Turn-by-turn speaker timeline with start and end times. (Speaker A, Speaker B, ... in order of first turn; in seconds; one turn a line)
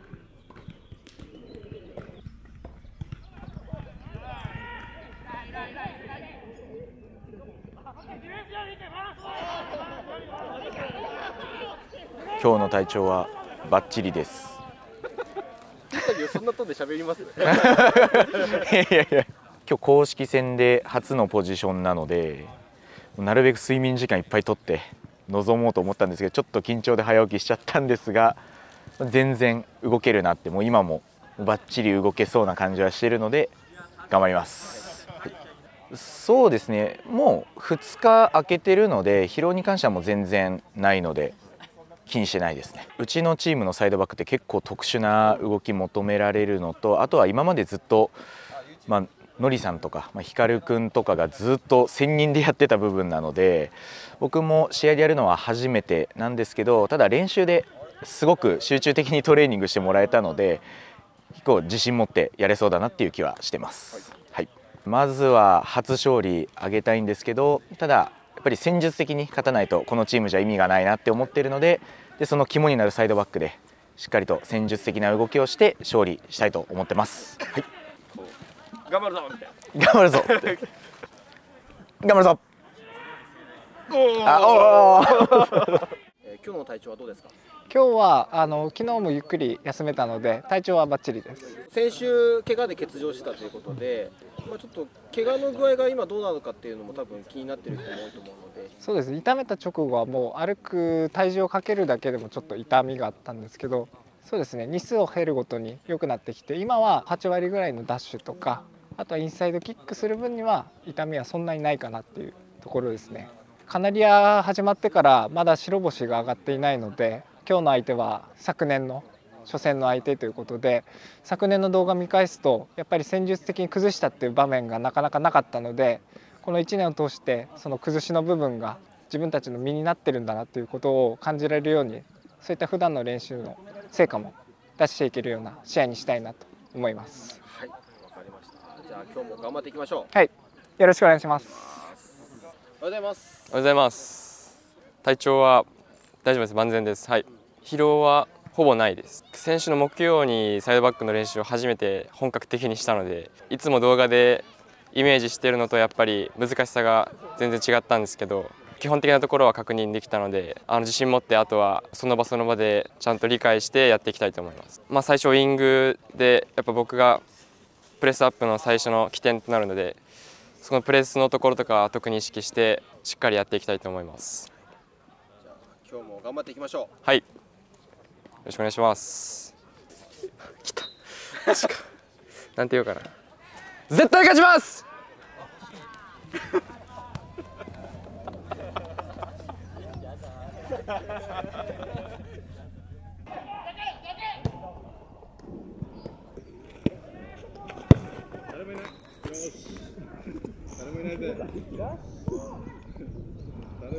Speaker A: 12.4-14.6
Speaker B: 15.9-18.6
Speaker A: 17.4-22.6
Speaker A: 23.2-28.4
Speaker A: 29.0-33.5
Speaker A: 34.1-35.3
Speaker A: 35.9-41.4
Speaker A: 42.1-48.2
Speaker A: 48.9-60.6
Speaker A: 61.3-77.7
Speaker B: 78.9-79.5
Speaker A: 79.7-80.6
Speaker B: 80.3-80.6
Speaker A: 82.0-82.4
Speaker B: 83.9-87.3
Speaker A: 84.2-85.7
Speaker C: 87.7-91.5
Speaker B: 91.7-98.7
Speaker C: 98.8-137.4
Speaker B: 137.4-140.1
Speaker C: 140.1-141.5
Speaker B: 141.5-142.1
Speaker B: 142.8-143.5
Speaker D: 143.5-144.5
Speaker D: 145.0-145.7
Speaker D: 146.2-167.2
Speaker D: 168.0-170.0
Speaker D: 170.6-174.5
Speaker B: 175.4-176.9
Speaker D: 178.4-179.5
Speaker D: 180.5-181.8
Speaker D: 182.6-183.1
Speaker D: 183.9-184.8